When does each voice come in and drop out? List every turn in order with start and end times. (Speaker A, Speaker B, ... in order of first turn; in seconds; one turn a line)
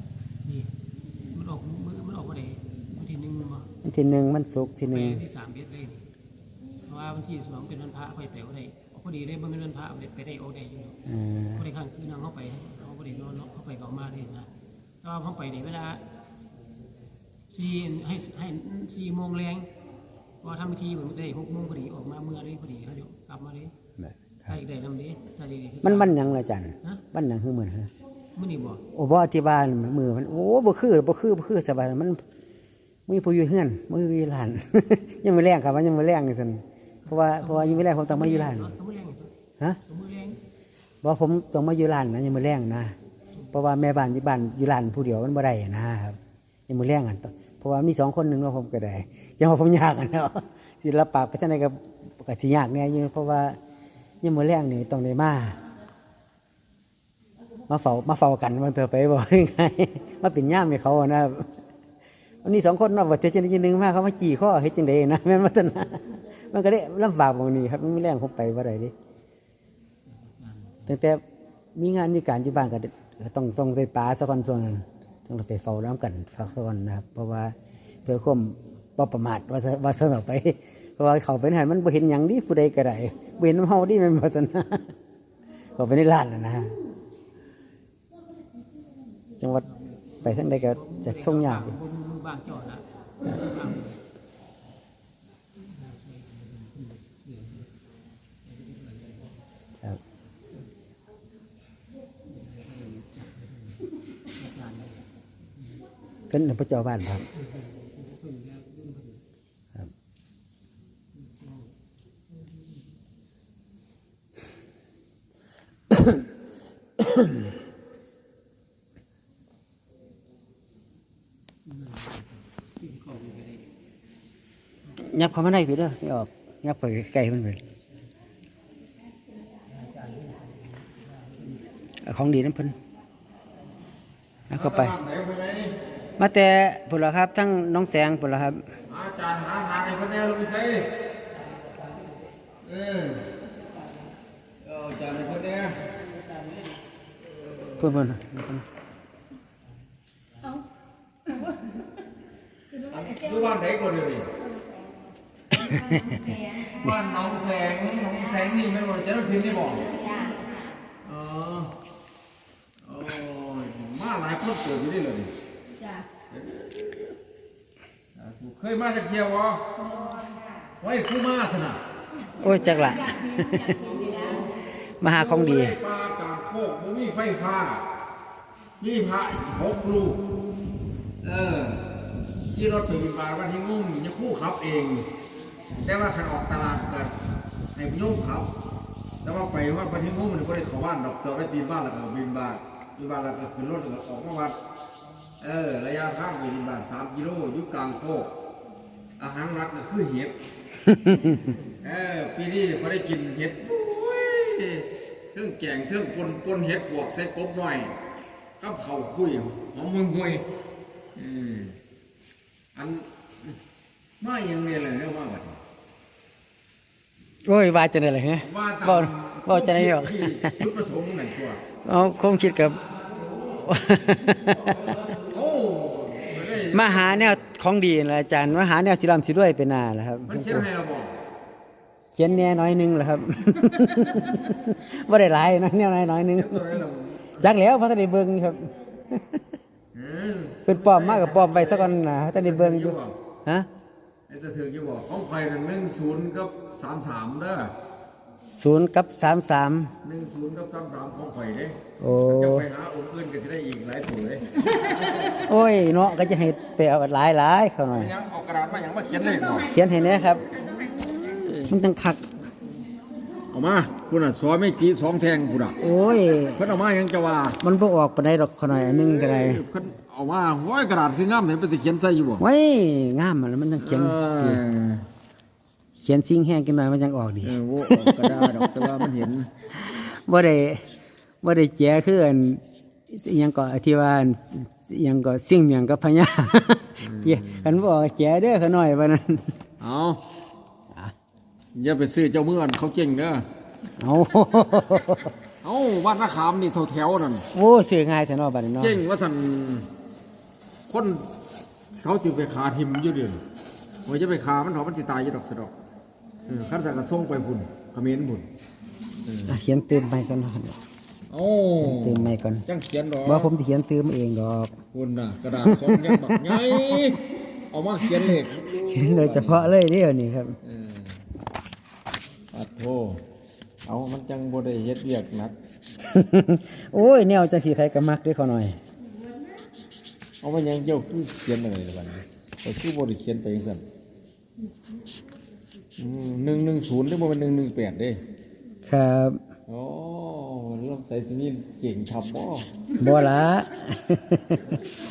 Speaker A: 0.4-3.7
Speaker B: 3.8-5.2
Speaker A: 4.9-6.0
Speaker A: 6.8-11.0
Speaker B: 11.1-11.6
Speaker A: 11.6-14.5
Speaker A: 15.0-16.0
Speaker A: 17.5-19.7
Speaker A: 20.4-23.7
Speaker B: 24.0-24.6
Speaker A: 24.5-27.0
Speaker B: 25.8-27.9
Speaker A: 28.3-28.8
Speaker B: 28.9-32.2
Speaker B: 33.1-38.7
Speaker A: 37.0-39.3
Speaker A: 39.9-40.4
Speaker B: 41.0-42.9
Speaker B: 43.5-46.2
Speaker B: 46.7-53.6
Speaker B: 54.2-55.6
Speaker B: 57.7-61.5
Speaker B: 62.4-68.9
Speaker A: 70.1-70.9
Speaker B: 70.9-71.2
Speaker B: 71.7-84.9
Speaker B: 85.8-86.8
Speaker B: 89.4-89.6
Speaker A: 89.6-94.0
Speaker B: 90.2-91.7
Speaker A: 95.6-97.7
Speaker A: 98.4-99.4
Speaker A: 102.3-105.0
Speaker B: 106.3-107.2
Speaker A: 107.3-109.2
Speaker A: 111.1-111.7
Speaker B: 115.9-116.2
Speaker B: 117.0-117.5
Speaker A: 121.7-123.6
Speaker B: 125.0-127.6
Speaker A: 129.7-131.0
Speaker B: 132.0-132.8
Speaker B: 134.5-134.9
Speaker C: 134.5-135.8
Speaker B: 136.2-138.6
Speaker C: 138.9-140.9
Speaker A: 141.5-142.1
Speaker C: 142.6-143.2
Speaker C: 144.6-145.8
Speaker A: 146.2-146.6
Speaker C: 147.4-147.8
Speaker B: 147.8-148.6
Speaker C: 152.9-154.3
Speaker B: 155.5-156.3
Speaker C: 156.3-160.1
Speaker C: 161.0-161.7
Speaker C: 162.8-165.3
Speaker C: 166.3-167.1
Speaker C: 168.2-169.6
Speaker C: 170.8-171.8
Speaker B: 172.4-173.9
Speaker B: 175.0-175.8
Speaker C: 175.1-177.8
Speaker C: 178.8-180.2
Speaker C: 181.2-181.8
Speaker C: 182.5-185.1
Speaker C: 185.8-187.1
Speaker C: 187.7-188.5
Speaker C: 189.2-194.6
Speaker C: 195.4-198.3
Speaker C: 199.2-200.3
Speaker B: 200.9-201.5
Speaker C: 201.8-207.9
Speaker C: 208.6-210.4
Speaker C: 211.1-211.7
Speaker C: 212.7-213.0
Speaker C: 214.2-215.6
Speaker B: 217.4-220.6
Speaker C: 218.4-221.6
Speaker B: 221.8-222.8
Speaker B: 223.5-225.1
Speaker C: 225.3-227.4
Speaker B: 226.7-230.7
Speaker C: 230.3-231.1
Speaker B: 232.2-236.8
Speaker C: 236.3-237.5
Speaker B: 237.4-239.4
Speaker C: 239.9-243.1
Speaker B: 240.7-243.7
Speaker C: 244.3-247.7
Speaker B: 248.6-249.9
Speaker C: 250.0-255.3
Speaker B: 252.0-252.7
Speaker B: 255.2-258.1
Speaker C: 257.9-259.8
Speaker B: 259.7-260.5
Speaker C: 260.7-261.7
Speaker B: 261.7-262.2
Speaker C: 263.5-265.8
Speaker B: 265.8-266.7
Speaker C: 266.6-267.6
Speaker B: 267.6-269.6
Speaker C: 268.7-272.4
Speaker B: 272.4-274.6
Speaker C: 273.8-275.1
Speaker B: 275.9-279.1
Speaker C: 277.4-279.5
Speaker B: 279.7-280.8
Speaker B: 281.4-289.5
Speaker C: 287.0-287.7
Speaker C: 289.8-290.2
Speaker C: 291.7-293.4
Speaker B: 294.0-295.3
Speaker C: 295.6-297.4
Speaker B: 297.5-299.0
Speaker C: 298.8-299.9
Speaker C: 300.9-301.2
Speaker C: 301.9-303.4
Speaker C: 304.1-305.7
Speaker C: 306.5-308.4
Speaker C: 309.2-309.6
Speaker B: 309.5-310.8
Speaker C: 311.3-313.5
Speaker B: 311.8-312.6
Speaker B: 313.2-314.8
Speaker C: 314.9-319.7
Speaker B: 315.6-317.1
Speaker B: 318.1-320.6
Speaker C: 320.6-321.2
Speaker C: 322.5-323.2
Speaker C: 323.9-325.5
Speaker B: 326.0-328.8
Speaker C: 330.4-333.8
Speaker C: 336.0-338.2
Speaker B: 338.9-339.4
Speaker C: 339.7-342.7
Speaker B: 343.0-344.8